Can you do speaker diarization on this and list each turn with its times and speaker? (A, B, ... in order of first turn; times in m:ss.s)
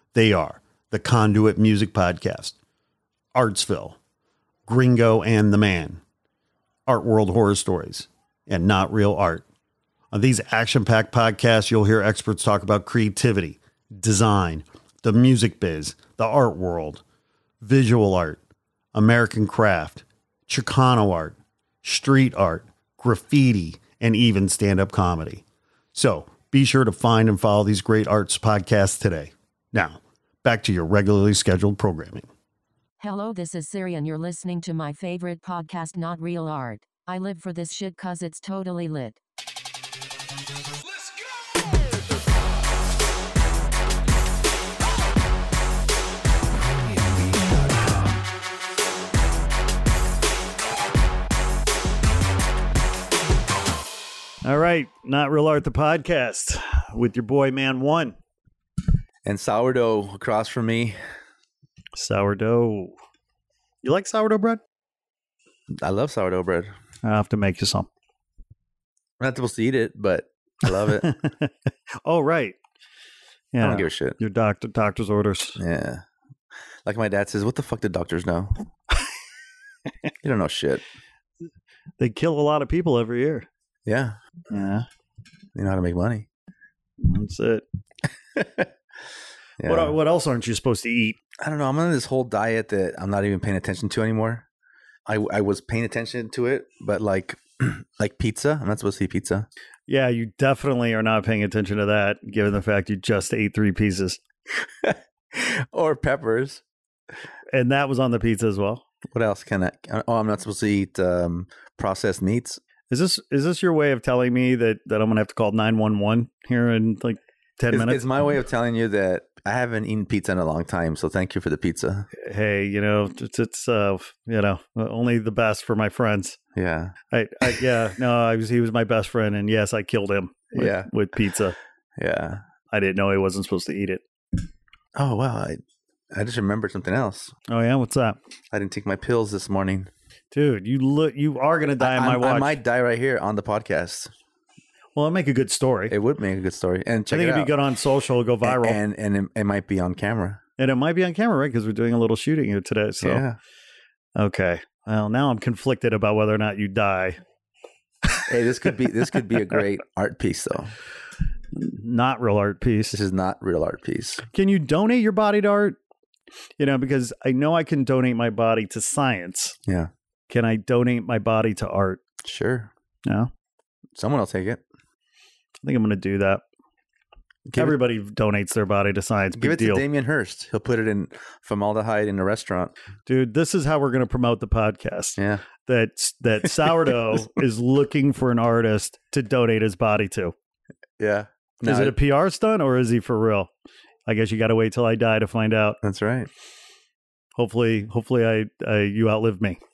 0:00.2-0:02.5 A
0:03.4-0:04.0 A
0:04.7-0:06.0 A
0:06.9-0:09.4 A
0:10.1-0:17.0 A
0:17.6-0:18.4 A
0:18.9-0:25.4 A
0:26.0-0:32.3 A
0:33.0-0:39.2 B
0:46.9-0:48.2 A
0:47.2-0:47.5 B
0:54.4-0:58.2 A
0:59.2-1:01.0 C
1:01.9-1:03.0 A
1:03.8-1:04.6 A
1:05.8-1:06.7 C
1:07.0-1:07.9 A
1:09.2-1:11.1 C
1:11.0-1:12.6 A
1:13.5-1:15.6 A
1:13.6-1:14.2 C
1:15.6-1:16.0 C
1:16.8-1:18.6 C
1:20.2-1:20.8 C
1:22.0-1:23.5 A
1:23.9-1:24.2 C
1:24.5-1:24.8 A
1:25.6-1:26.3 C
1:27.0-1:27.6 A
1:28.4-1:28.7 C
1:29.6-1:30.0 C
1:29.6-1:31.2 A
1:31.4-1:34.5 C
1:35.1-1:39.5 C
1:39.9-1:44.2 A
1:44.8-1:46.6 C
1:47.5-1:48.8 A
1:49.1-1:52.6 C
1:52.9-1:58.1 A
1:57.7-2:02.1 C
2:02.2-2:06.4 A
2:06.6-2:07.7 C
2:07.1-2:11.6 A
2:10.5-2:10.9 C
2:12.0-2:12.4 C
2:12.7-2:14.0 A
2:15.0-2:15.6 C
2:16.1-2:17.3 C
2:17.5-2:18.2 A
2:18.5-2:19.9 C
2:20.3-2:22.6 A
2:21.8-2:24.1 C
2:25.0-2:26.0 A
2:25.9-2:27.6 C
2:27.1-2:28.8 A
2:28.4-2:30.4 C
2:30.6-2:33.2 A
2:33.0-2:33.4 C
2:34.2-2:37.2 A
2:38.3-2:40.7 C
2:39.0-2:39.6 A
2:41.5-2:43.0 A
2:42.9-2:44.2 C
2:44.3-2:45.8 A
2:46.6-2:49.6 A
2:50.3-2:52.0 A
2:52.2-2:52.7 C
2:54.0-2:54.6 C
2:55.6-2:56.4 A
2:57.5-2:57.8 C
2:57.6-2:59.8 A
2:59.4-3:02.7 C
3:03.1-3:10.3 A
3:05.2-3:05.4 C
3:11.0-3:12.0 C
3:11.6-3:13.5 A
3:14.1-3:15.8 A
3:15.8-3:16.3 C
3:17.4-3:19.6 A